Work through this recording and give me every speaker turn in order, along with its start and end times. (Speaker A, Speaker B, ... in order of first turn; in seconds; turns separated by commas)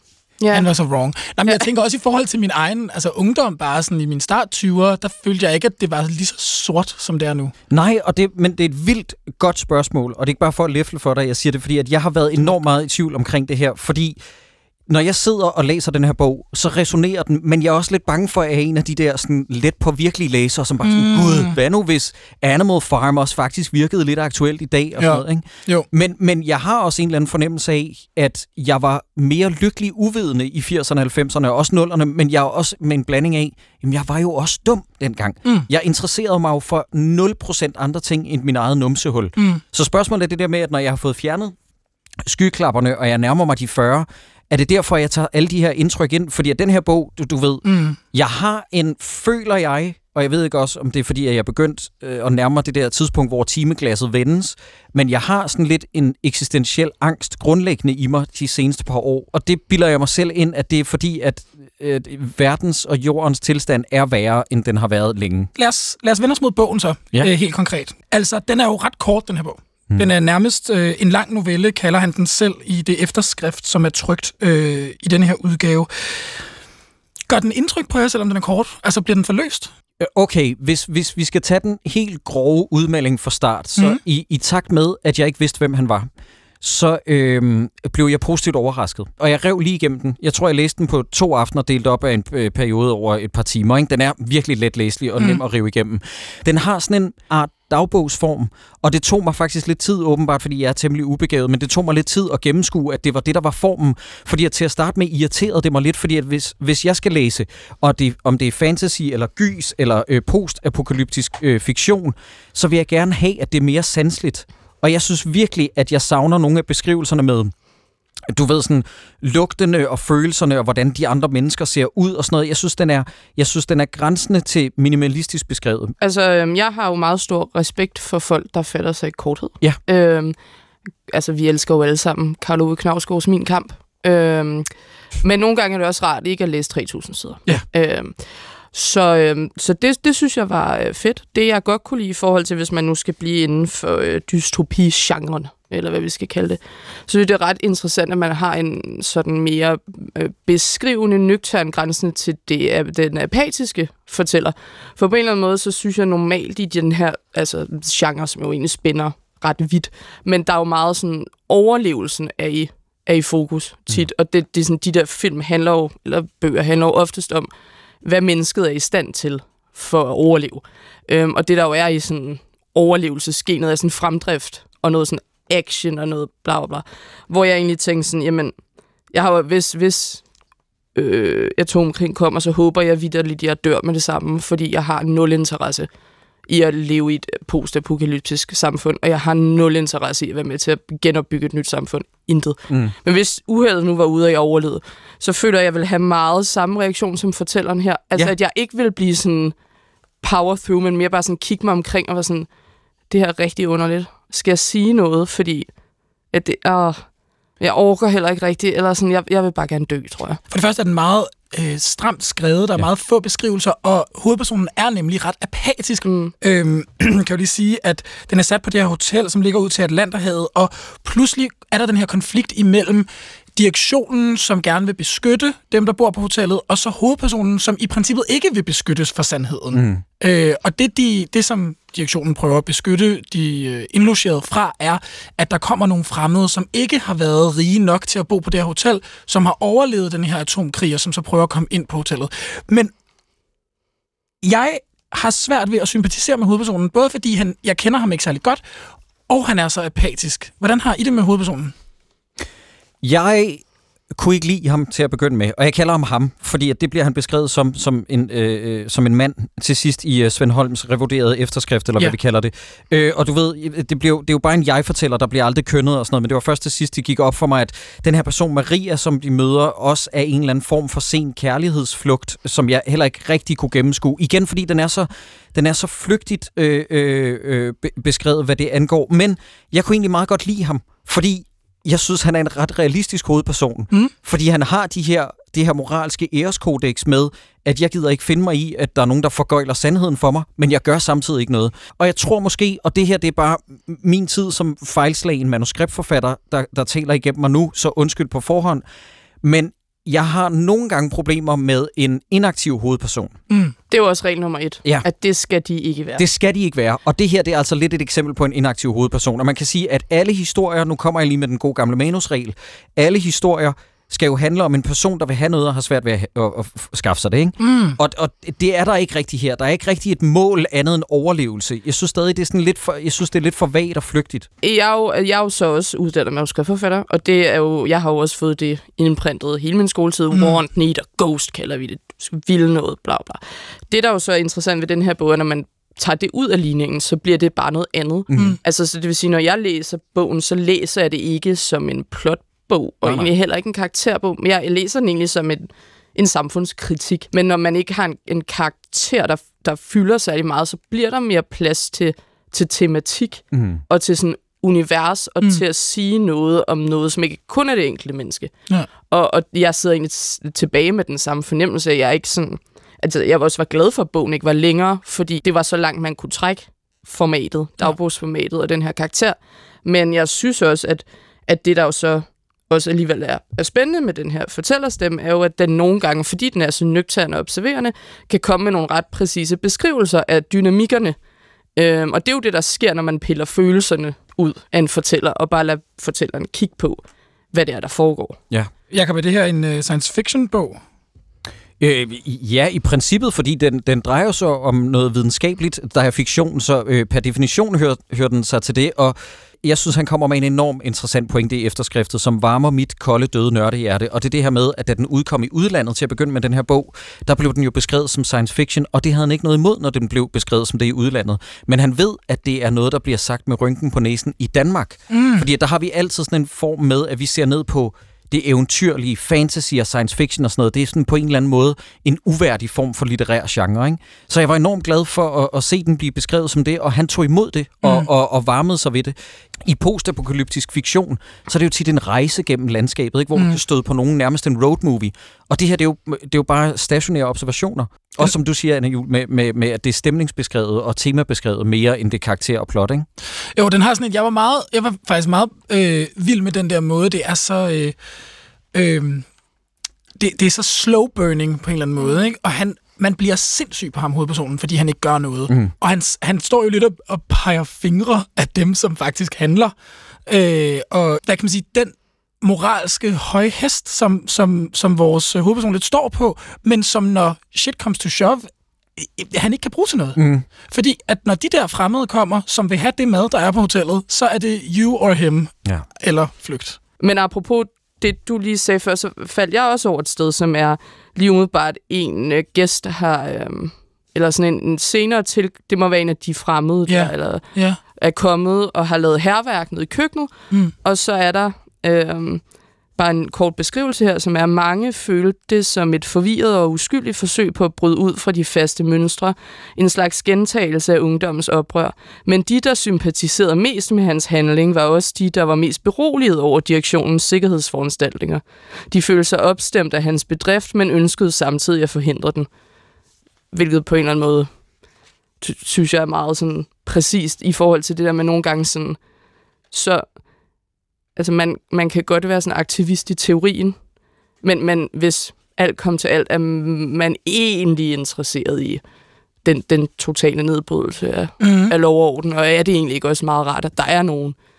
Speaker A: 0.4-0.7, Speaker B: 0.5-7.5, Speaker C: 7.7-14.2, Speaker C: 14.9-41.5, Speaker B: 20.8-21.5, Speaker B: 25.0-25.9, Speaker B: 39.4-39.6, Speaker C: 42.2-65.5, Speaker B: 47.6-48.0, Speaker B: 65.6-76.4, Speaker B: 77.3-79.7, Speaker C: 80.0-86.1, Speaker C: 86.6-117.5, Speaker C: 118.3-125.9, Speaker A: 126.0-130.3, Speaker A: 131.1-134.7, Speaker A: 135.2-138.1, Speaker A: 138.7-167.5, Speaker A: 168.0-178.5, Speaker A: 179.1-180.2, Speaker A: 180.9-185.9, Speaker A: 186.5-199.5, Speaker A: 200.2-202.5, Speaker A: 203.1-205.7, Speaker A: 206.3-207.0, Speaker A: 207.6-210.4, Speaker B: 210.5-242.9, Speaker A: 216.0-216.3, Speaker C: 229.7-230.0, Speaker B: 244.4-248.6, Speaker B: 249.3-251.7, Speaker C: 253.0-253.6, Speaker C: 254.1-298.8, Speaker C: 299.4-303.4, Speaker A: 303.9-306.2, Speaker C: 306.2-324.5, Speaker B: 317.6-318.0, Speaker A: 324.6-358.5, Speaker C: 338.3-338.6, Speaker C: 343.0-343.3, Speaker C: 353.5-353.8, Speaker A: 359.1-381.1, Speaker A: 381.8-388.4, Speaker B: 388.9-390.8, Speaker C: 391.8-443.1, Speaker B: 415.1-415.5, Speaker B: 427.8-428.1, Speaker B: 443.6-447.9, Speaker B: 448.7-449.2, Speaker B: 450.2-459.7, Speaker B: 460.2-476.8, Speaker C: 470.2-470.4, Speaker A: 477.0-487.4, Speaker B: 486.9-487.8, Speaker A: 487.9-490.3, Speaker A: 490.8-492.4, Speaker A: 492.9-512.5, Speaker A: 513.5-514.5, Speaker A: 515.4-519.0, Speaker A: 519.7-520.0, Speaker A: 521.1-523.8, Speaker A: 524.4-528.8, Speaker A: 529.4-534.4, Speaker B: 531.4-531.7